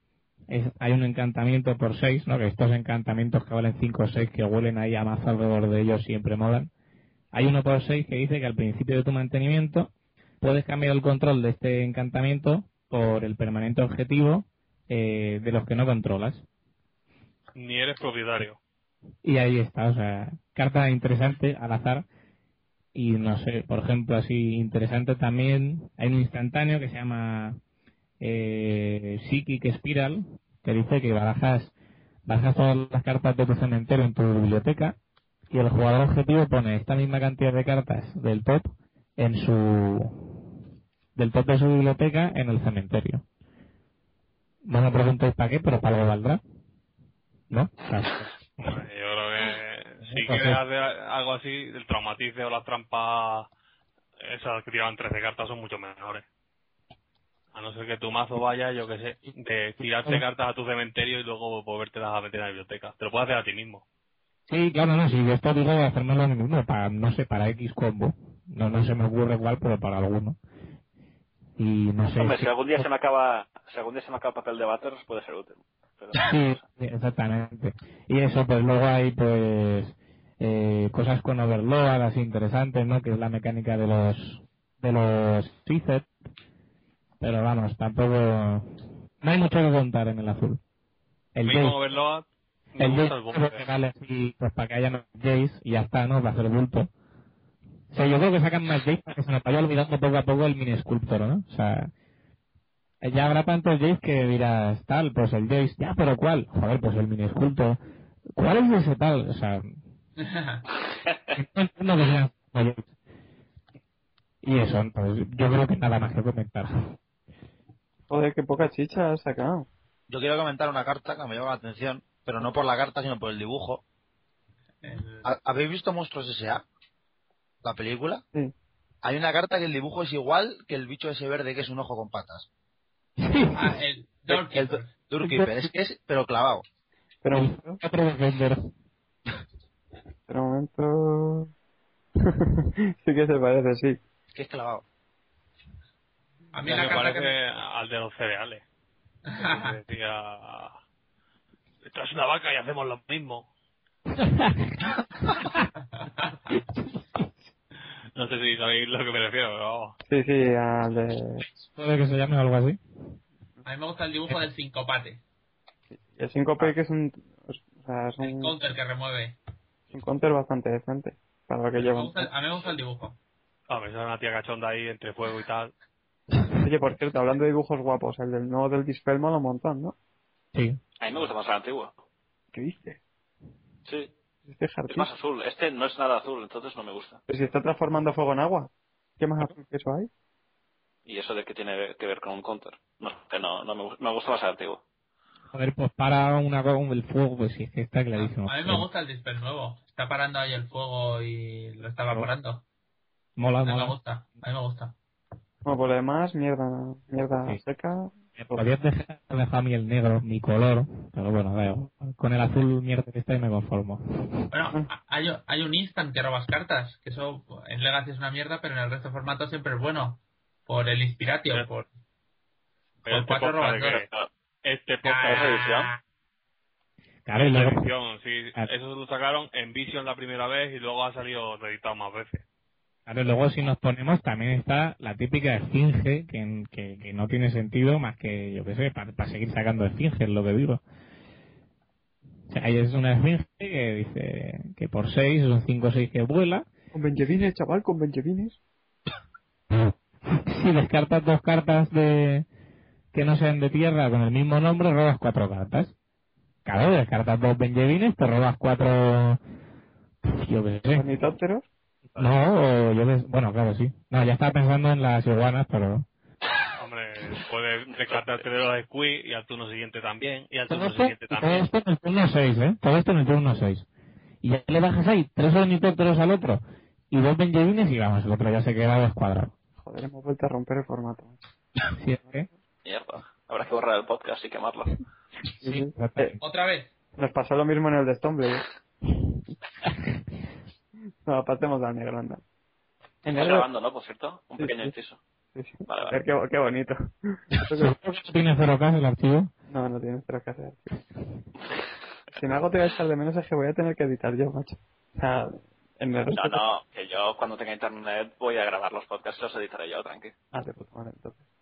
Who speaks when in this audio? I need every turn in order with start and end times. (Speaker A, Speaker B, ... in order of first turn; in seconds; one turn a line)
Speaker A: 0.5-6.7
Speaker A: 7.3-16.4
Speaker B: 17.5-18.6
Speaker A: 19.2-22.0
Speaker A: 22.9-27.6
Speaker A: 28.2-31.7
Speaker A: 32.3-35.0
Speaker A: 35.5-40.5
Speaker A: 41.1-43.2
Speaker A: 44.7-46.4
Speaker A: 47.5-48.8
Speaker B: 48.6-53.5
Speaker A: 50.0-50.6
Speaker B: 54.2-56.2
Speaker B: 57.5-63.8
Speaker A: 64.5-70.4
Speaker A: 71.6-72.9
Speaker C: 72.0-76.6
Speaker A: 76.2-86.1
Speaker A: 87.2-90.6
Speaker A: 91.3-91.8
Speaker B: 91.4-93.7
Speaker A: 92.8-96.9
Speaker A: 97.9-101.9
Speaker A: 103.0-107.8
Speaker A: 108.3-109.8
Speaker D: 110.2-110.7
Speaker C: 110.9-111.3
Speaker A: 111.3-112.9
Speaker A: 114.4-116.9
Speaker E: 118.1-119.7
Speaker F: 120.1-123.8
Speaker D: 124.8-125.2
Speaker F: 125.2-126.6
Speaker F: 127.6-128.2
Speaker F: 129.0-132.4
Speaker A: 133.2-133.8
Speaker D: 133.5-134.9
Speaker F: 134.3-136.6
Speaker A: 135.2-135.7
Speaker E: 137.2-137.8
Speaker A: 137.3-138.7
Speaker E: 140.3-141.5
Speaker E: 142.2-144.0
Speaker F: 144.3-144.8
Speaker D: 146.5-147.3
Speaker B: 146.6-148.6
Speaker D: 149.2-149.8
Speaker B: 149.4-150.8
Speaker B: 151.8-153.4
Speaker A: 154.2-154.9
Speaker D: 155.9-156.4
Speaker A: 156.5-157.3
Speaker B: 158.1-159.9
Speaker E: 160.1-161.4
Speaker A: 161.7-162.8
Speaker D: 163.6-165.2
Speaker E: 166.1-168.5
Speaker D: 168.2-169.4
Speaker E: 169.9-172.3
Speaker D: 171.8-173.2
Speaker B: 173.7-175.7
Speaker E: 176.6-179.9
Speaker A: 180.5-180.8
Speaker C: 181.0-181.9
Speaker E: 182.5-183.0
Speaker C: 183.8-184.1
Speaker E: 184.4-185.1
Speaker C: 184.9-187.2
Speaker E: 187.3-190.1
Speaker C: 191.1-194.8
Speaker A: 195.5-198.9
Speaker D: 198.1-202.6
Speaker A: 203.4-204.0
Speaker D: 203.6-204.9
Speaker E: 205.6-208.6
Speaker A: 208.4-214.4
Speaker D: 214.5-221.9
Speaker B: 223.1-224.1
Speaker D: 223.1-224.0
Speaker C: 224.0-224.3
Speaker B: 224.6-225.5
Speaker D: 225.0-226.0
Speaker C: 225.3-225.9
Speaker A: 227.2-227.8
Speaker B: 227.4-232.4
Speaker A: 233.1-240.8
Speaker A: 242.5-246.7
Speaker E: 246.9-248.6
Speaker A: 249.7-252.4
Speaker A: 253.1-255.9
Speaker A: 256.6-259.4
Speaker A: 260.2-261.0
Speaker E: 260.9-261.6
Speaker A: 262.2-266.1
Speaker B: 266.8-271.7
Speaker C: 267.9-268.4
Speaker A: 270.7-273.9
Speaker A: 274.4-279.5
Speaker E: 279.8-281.4
Speaker A: 281.9-282.5
Speaker C: 282.8-285.0
Speaker A: 285.6-286.4
Speaker E: 285.6-286.4
Speaker D: 286.4-286.9
Speaker E: 287.2-289.4
Speaker E: 291.2-292.4
Speaker E: 293.2-293.7
Speaker C: 293.3-295.2
Speaker E: 294.6-294.9
Speaker E: 295.5-297.9
Speaker C: 295.9-296.1
Speaker A: 297.7-299.5
Speaker E: 299.7-301.0
Speaker E: 302.3-306.6
Speaker C: 306.3-310.3
Speaker E: 310.5-311.4